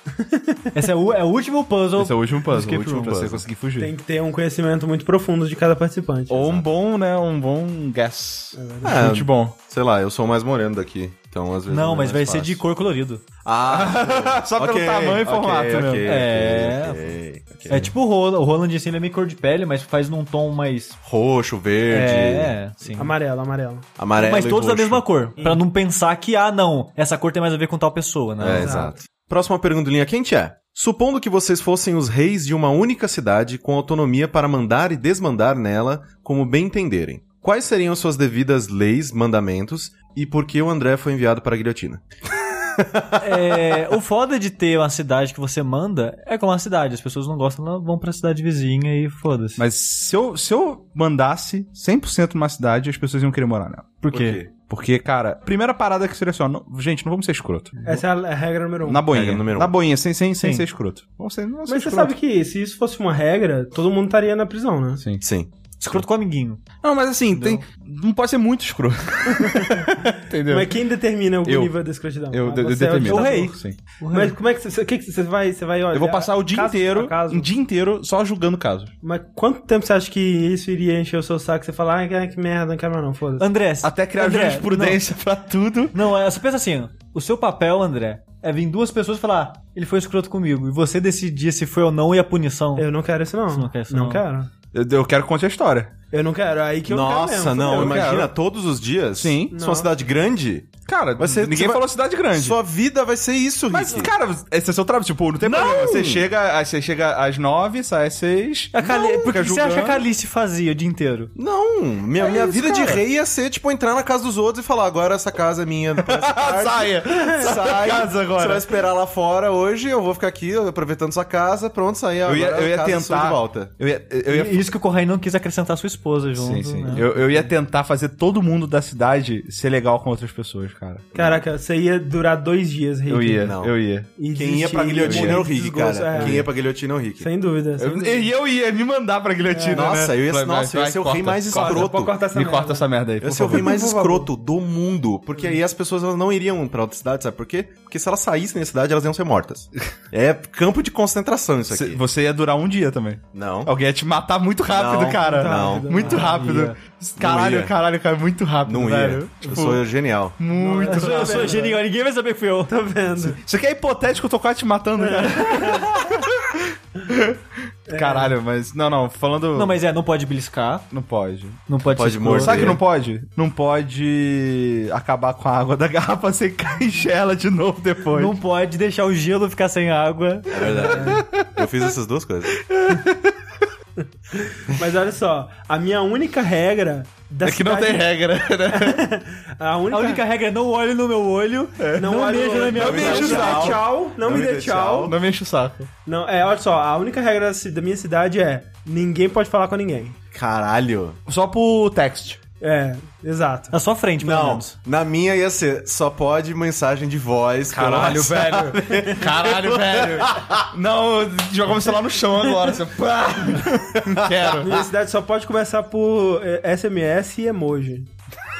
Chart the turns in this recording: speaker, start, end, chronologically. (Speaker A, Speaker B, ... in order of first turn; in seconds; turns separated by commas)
Speaker A: 0.2-0.7, Speaker B: 0.7-3.4, Speaker C: 2.0-3.9, Speaker D: 2.8-3.4, Speaker A: 3.8-6.4, Speaker C: 6.3-9.5, Speaker D: 6.3-6.7, Speaker A: 8.5-9.1, Speaker D: 8.8-12.6, Speaker B: 11.7-13.2, Speaker D: 13.4-17.9, Speaker C: 13.7-16.1, Speaker B: 16.0-17.1, Speaker B: 17.7-21.0, Speaker D: 21.0-22.6, Speaker B: 21.9-23.1, Speaker A: 22.9-23.9, Speaker D: 24.0-25.0, Speaker B: 24.1-28.9, Speaker D: 28.4-42.0, Speaker A: 28.5-28.9, Speaker D: 42.6-43.5, Speaker B: 43.2-49.6, Speaker C: 49.6-54.0, Speaker B: 54.1-54.4, Speaker D: 54.1-54.5, Speaker C: 54.7-57.7, Speaker B: 57.8-58.0, Speaker A: 57.8-59.0, Speaker C: 58.8-62.1, Speaker D: 59.1-59.7, Speaker A: 61.7-65.0, Speaker D: 65.2-65.5, Speaker B: 65.8-66.6, Speaker C: 66.8-70.8, Speaker B: 67.3-67.6, Speaker A: 69.4-69.8, Speaker A: 70.5-73.5, Speaker C: 71.4-71.7, Speaker C: 72.3-73.8, Speaker B: 73.0-74.3, Speaker A: 74.1-77.5, Speaker C: 75.9-78.9, Speaker A: 79.0-83.5, Speaker B: 83.4-85.0, Speaker C: 83.8-86.0, Speaker B: 85.9-92.9, Speaker A: 92.8-94.5, Speaker B: 93.5-94.2, Speaker C: 94.7-95.9, Speaker A: 96.1-98.2, Speaker D: 96.9-104.1, Speaker C: 97.7-98.3, Speaker C: 99.2-99.5, Speaker A: 99.5-99.9, Speaker C: 100.8-102.6, Speaker C: 103.7-110.0, Speaker D: 105.4-106.2, Speaker B: 108.7-111.3, Speaker D: 111.3-123.7, Speaker C: 112.2-113.0, Speaker C: 116.0-118.6, Speaker A: 117.2-117.5, Speaker C: 122.2-124.7, Speaker B: 124.3-127.1, Speaker C: 126.3-131.1, Speaker D: 131.1-131.4, Speaker A: 131.1-133.5, Speaker C: 133.1-134.1, Speaker D: 133.4-133.8, Speaker A: 134.2-136.5, Speaker D: 134.3-137.3, Speaker C: 135.0-135.4, Speaker C: 136.2-136.4, Speaker A: 137.2-138.3, Speaker C: 137.8-143.7, Speaker A: 139.5-140.0, Speaker D: 139.7-142.1, Speaker A: 141.5-142.9, Speaker D: 143.2-152.0, Speaker A: 143.4-144.3, Speaker C: 151.7-159.8, Speaker D: 153.3-153.7, Speaker D: 154.7-156.2, Speaker A: 155.2-156.3, Speaker B: 156.0-156.8, Speaker D: 157.2-157.7, Speaker D: 158.7-160.4, Speaker C: 160.4-161.6, Speaker A: 160.5-161.8, Speaker B: 160.8-162.7, Speaker A: 162.7-163.4, Speaker C: 163.3-169.7, Speaker A: 165.0-165.9, Speaker A: 167.9-168.3, Speaker B: 169.5-170.8, Speaker C: 170.9-171.6, Speaker B: 171.7-172.8, Speaker D: 171.9-172.8, Speaker C: 172.3-178.4, Speaker B: 178.1-181.1, Speaker D: 180.5-182.5, Speaker A: 180.8-181.2, Speaker C: 181.0-181.6, Speaker C: 182.6-183.4, Speaker A: 184.3-188.1, Speaker C: 187.4-189.1, Speaker A: 188.7-190.2, Speaker B: 189.9-193.8, Speaker C: 191.8-192.2, Speaker A: 192.0-195.1, Speaker C: 192.7-193.8, Speaker D: 192.8-195.1, Speaker C: 195.1-195.9, Speaker A: 196.0-200.2, Speaker D: 200.3-201.2, Speaker C: 201.2-202.4, Speaker A: 202.6-203.7, Speaker B: 203.7-204.7, Speaker D: 204.2-210.7, Speaker C: 207.7-214.7, Speaker D: 214.0-214.8, Speaker A: 214.6-218.1